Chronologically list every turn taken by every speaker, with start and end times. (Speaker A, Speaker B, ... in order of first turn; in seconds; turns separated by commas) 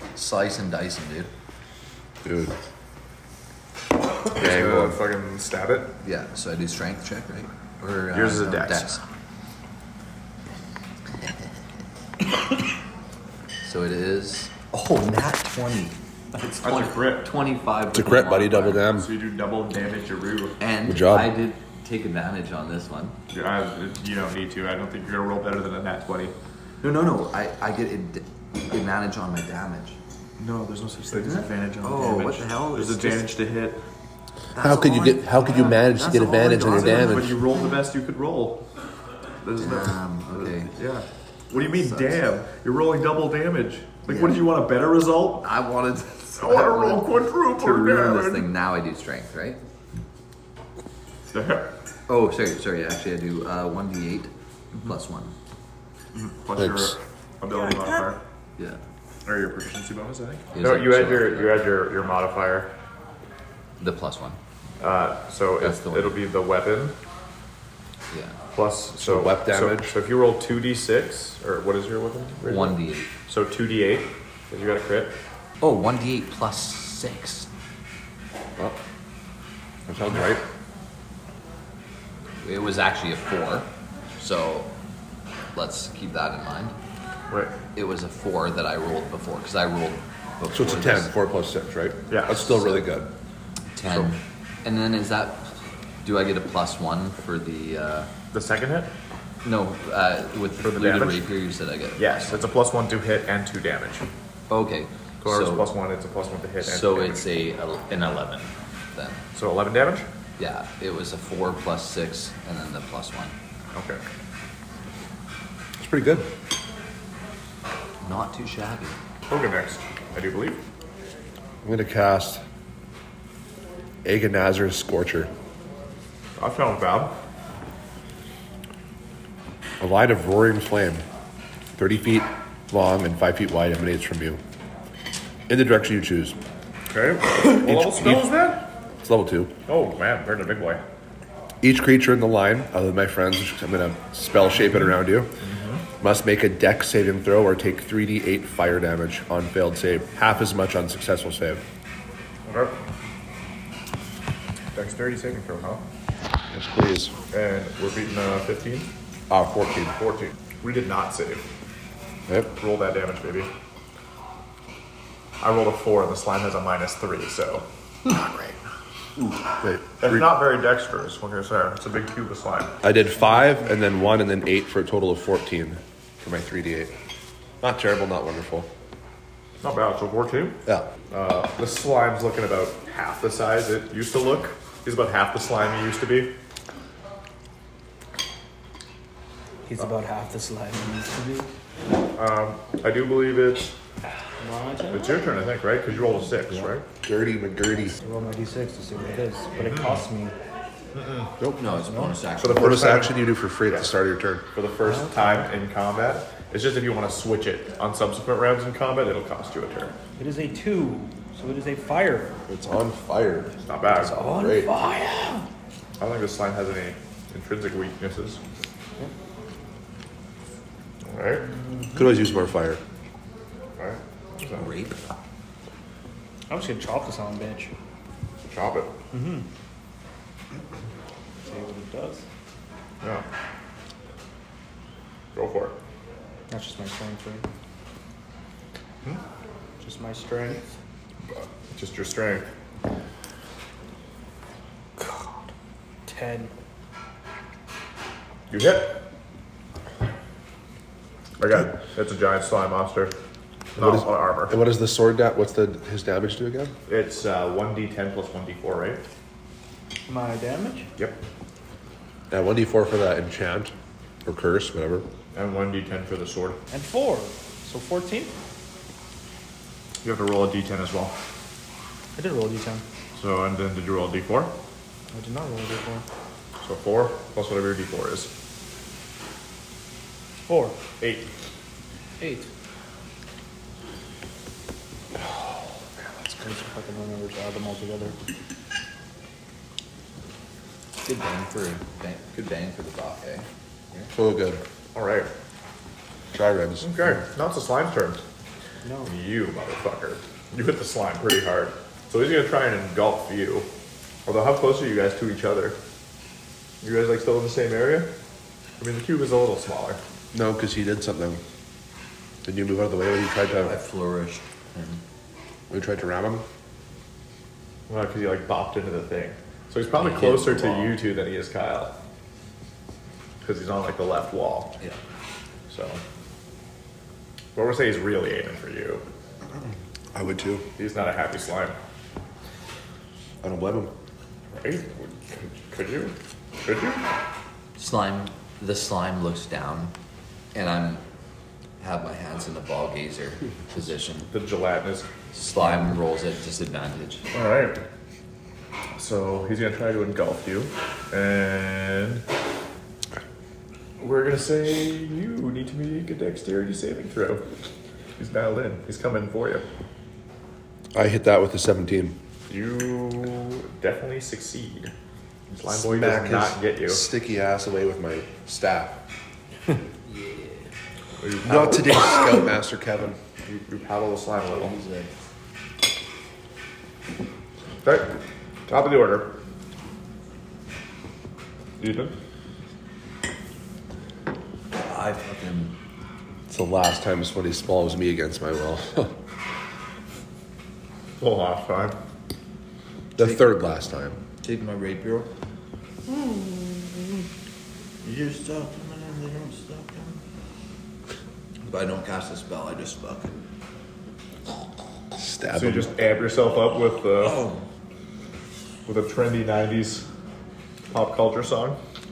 Speaker A: 0.1-1.3, Speaker B: 2.2-2.5, Speaker C: 4.2-6.0, Speaker B: 4.3-5.0, Speaker A: 6.0-9.0, Speaker C: 8.1-9.0, Speaker A: 13.6-18.9, Speaker C: 16.6-17.3, Speaker B: 17.9-19.1, Speaker C: 19.0-20.6, Speaker A: 20.6-23.2, Speaker B: 20.9-21.3, Speaker C: 23.3-26.3, Speaker A: 26.8-30.0, Speaker C: 30.4-33.8, Speaker A: 31.1-33.3, Speaker A: 34.5-37.5, Speaker B: 34.6-37.4, Speaker C: 36.7-38.6, Speaker C: 39.4-45.5, Speaker A: 39.6-40.7, Speaker A: 41.8-42.2, Speaker A: 44.1-44.4, Speaker A: 45.4-49.6, Speaker C: 46.4-48.5, Speaker C: 51.3-51.7, Speaker A: 52.1-55.3, Speaker C: 56.1-58.2, Speaker B: 56.6-56.9, Speaker C: 59.2-62.7, Speaker A: 60.5-61.6, Speaker A: 63.8-64.4, Speaker C: 64.8-67.0, Speaker A: 65.6-66.2, Speaker A: 68.1-68.4, Speaker C: 68.5-75.2, Speaker B: 69.0-70.0, Speaker A: 72.4-73.1, Speaker A: 75.6-77.5, Speaker B: 79.9-80.4, Speaker A: 82.4-84.7, Speaker A: 85.5-86.8, Speaker C: 87.3-87.6, Speaker A: 87.8-91.1, Speaker B: 90.5-93.1, Speaker C: 92.1-92.6, Speaker A: 93.8-95.5, Speaker A: 96.0-98.1, Speaker C: 98.3-98.9, Speaker A: 99.4-102.5, Speaker C: 100.6-101.3, Speaker C: 102.0-104.1, Speaker A: 104.5-105.7, Speaker C: 105.2-107.3, Speaker A: 106.6-109.2, Speaker C: 109.3-110.1, Speaker A: 110.4-113.3, Speaker C: 113.7-114.0, Speaker B: 115.8-116.3, Speaker A: 118.0-119.0, Speaker C: 119.3-120.6, Speaker B: 121.6-122.4, Speaker B: 124.0-125.3, Speaker C: 126.4-127.1, Speaker B: 129.8-131.0, Speaker B: 131.8-134.4, Speaker B: 135.5-136.4, Speaker C: 136.9-138.7, Speaker B: 137.6-138.3, Speaker B: 139.0-139.5, Speaker C: 139.7-140.8, Speaker B: 141.6-145.3, Speaker C: 145.4-145.8, Speaker B: 146.0-151.6, Speaker C: 152.4-152.8, Speaker C: 154.7-155.8, Speaker B: 156.5-157.2, Speaker C: 157.3-158.9, Speaker B: 159.3-160.0, Speaker C: 160.0-161.5, Speaker C: 162.5-163.5, Speaker C: 165.4-168.6, Speaker B: 169.2-170.2, Speaker C: 170.0-172.8, Speaker B: 172.8-176.9, Speaker B: 177.6-178.7, Speaker C: 179.6-186.3, Speaker D: 189.7-191.5, Speaker C: 192.2-193.7, Speaker D: 194.4-195.2, Speaker C: 194.9-196.8, Speaker B: 197.0-198.0, Speaker D: 198.0-200.3, Speaker C: 199.6-200.1, Speaker C: 200.9-201.3, Speaker B: 201.4-201.7, Speaker A: 201.6-203.0, Speaker D: 201.7-202.1, Speaker C: 202.4-203.9, Speaker B: 202.4-204.4, Speaker C: 204.5-209.9, Speaker D: 204.8-205.5, Speaker D: 210.2-212.3, Speaker B: 212.5-213.6, Speaker C: 213.6-214.2, Speaker B: 214.1-214.7, Speaker D: 214.1-215.4, Speaker C: 216.0-218.4, Speaker C: 221.0-221.5, Speaker D: 221.5-222.3, Speaker B: 221.9-222.8, Speaker C: 223.8-224.7, Speaker A: 224.6-225.0, Speaker D: 226.5-227.7, Speaker C: 228.5-228.9, Speaker D: 229.1-229.5, Speaker D: 231.4-232.2, Speaker C: 233.0-233.3, Speaker C: 235.3-235.8, Speaker D: 236.5-237.5, Speaker D: 239.8-240.7, Speaker C: 241.7-242.5, Speaker D: 245.0-245.3, Speaker D: 246.1-246.5, Speaker C: 248.5-249.0, Speaker C: 251.4-253.2, Speaker C: 253.8-254.6, Speaker B: 253.8-256.7, Speaker C: 256.9-259.0, Speaker D: 260.1-260.9, Speaker B: 262.3-263.7, Speaker B: 264.2-265.1, Speaker C: 265.3-266.6, Speaker D: 266.7-268.3, Speaker C: 270.0-271.2, Speaker D: 272.1-272.8, Speaker C: 273.1-274.5, Speaker D: 275.1-276.1, Speaker C: 276.6-278.3, Speaker D: 280.4-280.8, Speaker C: 281.0-281.3, Speaker D: 282.2-282.5, Speaker D: 286.4-288.2, Speaker A: 291.0-294.1, Speaker B: 294.1-294.6, Speaker C: 294.9-295.3, Speaker B: 296.3-297.2, Speaker C: 296.8-298.2, Speaker D: 298.8-299.1, Speaker C: 299.0-303.7, Speaker C: 304.3-305.8, Speaker C: 306.8-308.1, Speaker C: 308.8-310.0, Speaker B: 310.3-311.4, Speaker B: 312.4-313.8, Speaker A: 313.6-315.0, Speaker B: 315.7-316.4, Speaker C: 317.9-322.0, Speaker A: 319.9-321.0, Speaker C: 323.4-324.8, Speaker C: 325.7-326.0, Speaker C: 327.6-329.0, Speaker B: 330.1-330.7, Speaker C: 330.8-331.8, Speaker B: 333.4-333.9, Speaker C: 334.5-337.0, Speaker A: 337.8-339.9, Speaker A: 340.5-341.0, Speaker A: 341.8-344.3, Speaker C: 344.3-346.0, Speaker A: 345.3-347.3, Speaker C: 347.3-347.8, Speaker C: 348.9-352.2, Speaker C: 354.0-357.4, Speaker C: 358.2-359.7, Speaker B: 360.9-362.2, Speaker C: 362.5-364.9, Speaker C: 365.5-367.1, Speaker B: 365.7-369.0, Speaker A: 370.0-370.7, Speaker C: 371.2-372.3, Speaker B: 371.4-373.2, Speaker C: 373.4-374.8, Speaker A: 374.5-375.1, Speaker C: 377.8-379.4, Speaker C: 381.8-382.1, Speaker A: 384.7-385.8, Speaker B: 386.5-389.2, Speaker C: 391.2-392.0, Speaker B: 393.2-394.2, Speaker A: 394.4-395.3, Speaker A: 396.1-397.2, Speaker A: 398.0-400.2, Speaker A: 401.6-403.4, Speaker B: 405.2-405.9, Speaker C: 405.5-407.4, Speaker A: 407.1-407.6, Speaker C: 408.9-410.1, Speaker C: 410.9-411.8